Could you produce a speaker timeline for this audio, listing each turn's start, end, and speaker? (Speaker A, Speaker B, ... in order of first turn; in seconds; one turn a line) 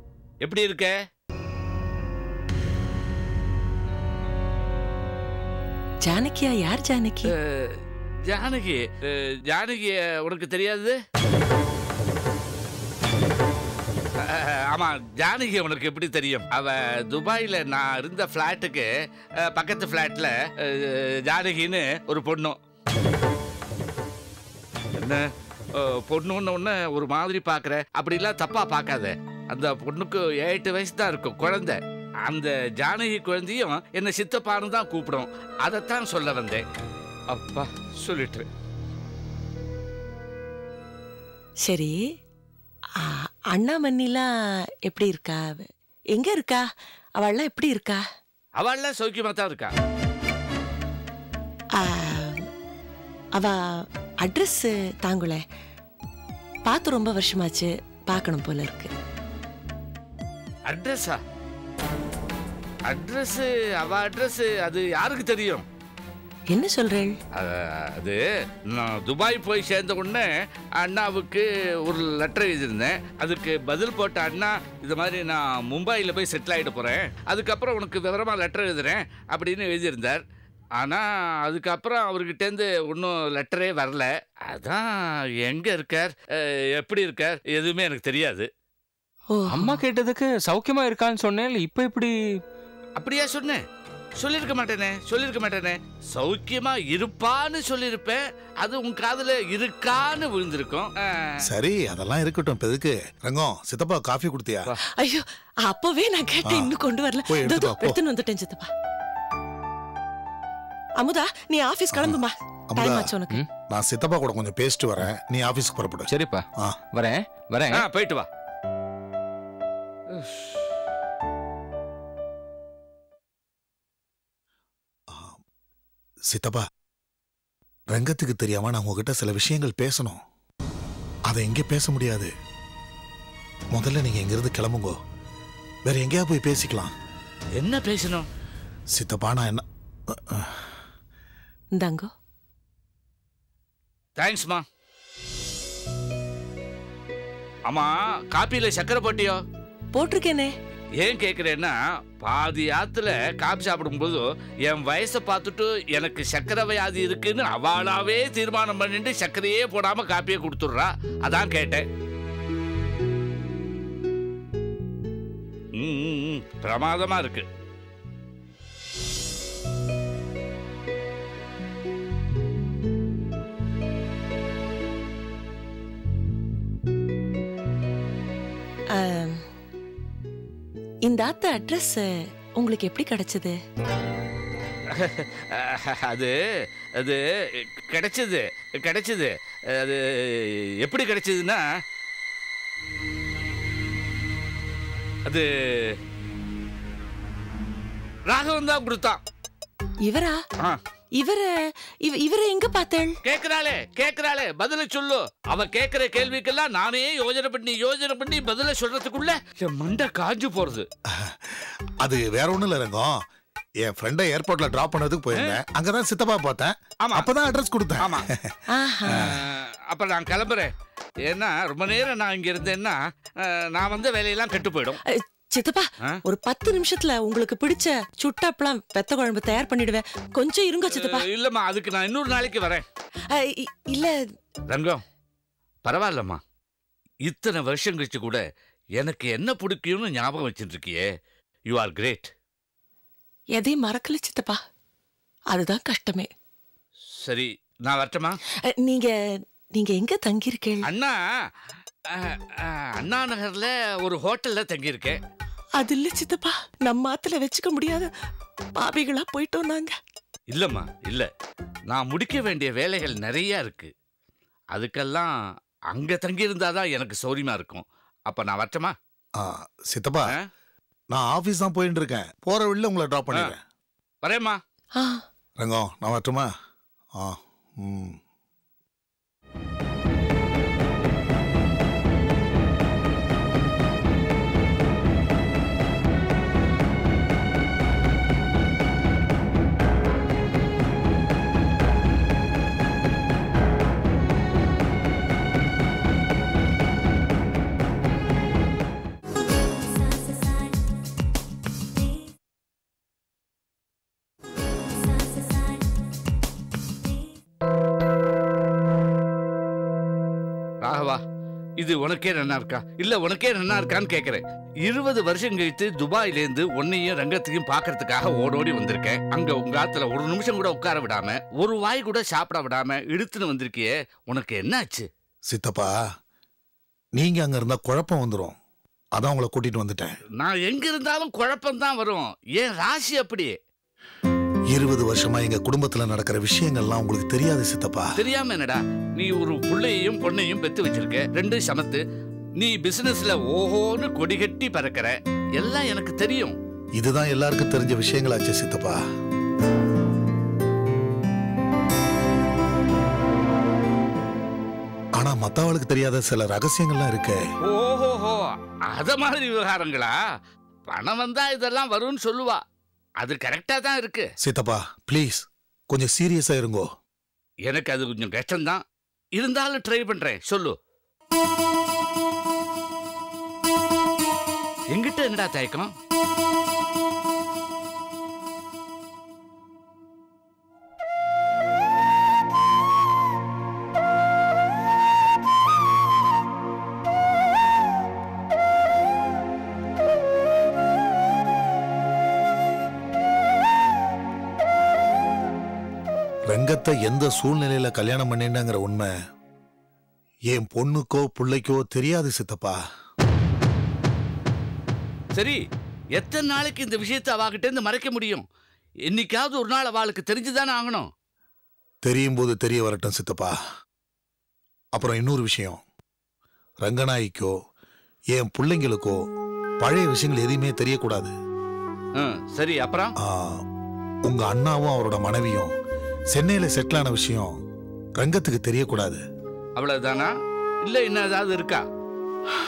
Speaker A: 0.4-1.0
Speaker B: 6.0-7.3
Speaker A: 7.4-11.0
Speaker A: 14.2-18.9
Speaker A: 19.4-22.6
Speaker A: 25.0-25.2
Speaker A: 25.7-36.6
Speaker A: 37.3-38.5
Speaker B: 41.6-42.0
Speaker B: 43.0-44.3
Speaker B: 44.9-46.6
Speaker B: 47.2-48.0
Speaker A: 48.5-49.7
Speaker B: 51.8-52.4
Speaker B: 54.2-55.4
Speaker B: 56.6-58.9
Speaker A: 60.7-61.2
Speaker A: 62.9-65.6
Speaker B: 66.5-67.1
Speaker A: 67.3-80.2
Speaker A: 80.8-88.5
Speaker B: 89.3-89.8
Speaker C: 89.6-92.4
Speaker A: 93.0-93.6
Speaker A: 94.2-101.3
Speaker D: 101.4-104.7
Speaker B: 105.0-108.7
Speaker D: 106.4-106.7
Speaker D: 107.3-108.0
Speaker B: 111.0-113.4
Speaker D: 111.9-112.2
Speaker D: 112.7-113.1
Speaker D: 113.7-116.8
Speaker C: 116.1-117.8
Speaker A: 117.7-118.3
Speaker A: 120.1-120.6
Speaker D: 125.1-125.4
Speaker D: 126.3-126.6
Speaker D: 127.9-130.2
Speaker D: 131.3-132.3
Speaker D: 133.7-134.9
Speaker D: 135.8-136.9
Speaker A: 137.5-138.3
Speaker D: 138.9-140.7
Speaker B: 141.8-142.1
Speaker A: 144.2-144.6
Speaker A: 147.7-149.4
Speaker B: 149.9-150.5
Speaker A: 151.0-161.8
Speaker A: 165.8-167.4
Speaker B: 178.9-179.4
Speaker B: 181.0-183.6
Speaker A: 184.9-186.3
Speaker A: 187.0-191.6
Speaker A: 195.3-196.0
Speaker A: 198.3-199.2
Speaker B: 200.1-200.4
Speaker B: 201.2-201.5
Speaker B: 202.0-203.2
Speaker A: 203.2-210.9
Speaker D: 211.1-213.2
Speaker D: 213.8-218.5
Speaker A: 215.3-215.6
Speaker B: 218.7-219.3
Speaker D: 219.1-219.4
Speaker A: 219.1-220.7
Speaker A: 221.2-225.0
Speaker B: 225.1-231.2
Speaker A: 230.9-232.8
Speaker B: 233.3-234.2
Speaker A: 234.7-235.0
Speaker A: 235.8-236.4
Speaker A: 237.2-238.4
Speaker A: 239.0-241.0
Speaker A: 241.7-242.3
Speaker B: 243.5-244.6
Speaker B: 245.5-246.3
Speaker A: 247.2-248.4
Speaker B: 248.8-249.1
Speaker B: 249.7-250.9
Speaker A: 250.9-251.2
Speaker A: 252.1-255.2
Speaker B: 255.8-258.1
Speaker B: 258.8-259.9
Speaker A: 260.5-261.3
Speaker A: 261.9-263.9
Speaker A: 264.7-265.3
Speaker A: 265.9-268.9
Speaker D: 269.4-270.3
Speaker D: 271.1-273.6
Speaker A: 274.2-274.6
Speaker B: 274.9-275.2
Speaker D: 275.6-276.5
Speaker D: 277.2-278.2
Speaker A: 310.8-311.2
Speaker A: 311.8-325.1
Speaker D: 325.5-325.9
Speaker D: 327.2-328.5
Speaker D: 329.1-330.1
Speaker A: 330.4-333.6
Speaker D: 334.7-338.1
Speaker A: 338.1-342.0
Speaker A: 342.6-346.6
Speaker D: 346.9-349.0
Speaker D: 355.2-357.4
Speaker A: 357.6-360.1
Speaker A: 360.9-362.6
Speaker A: 363.2-364.3
Speaker D: 364.4-366.9
Speaker A: 367.6-368.8
Speaker A: 369.3-370.7
Speaker A: 374.9-375.9
Speaker D: 396.5-399.1
Speaker D: 400.5-402.8
Speaker A: 406.1-408.4
Speaker A: 409.1-411.1
Speaker D: 412.0-413.5
Speaker D: 414.9-415.8
Speaker D: 416.8-417.5
Speaker D: 418.3-419.2
Speaker D: 419.8-421.3
Speaker A: 422.2-423.1
Speaker D: 423.2-423.6
Speaker D: 424.2-425.7
Speaker D: 426.3-427.5
Speaker D: 428.2-429.2
Speaker A: 429.8-430.3
Speaker A: 430.8-431.8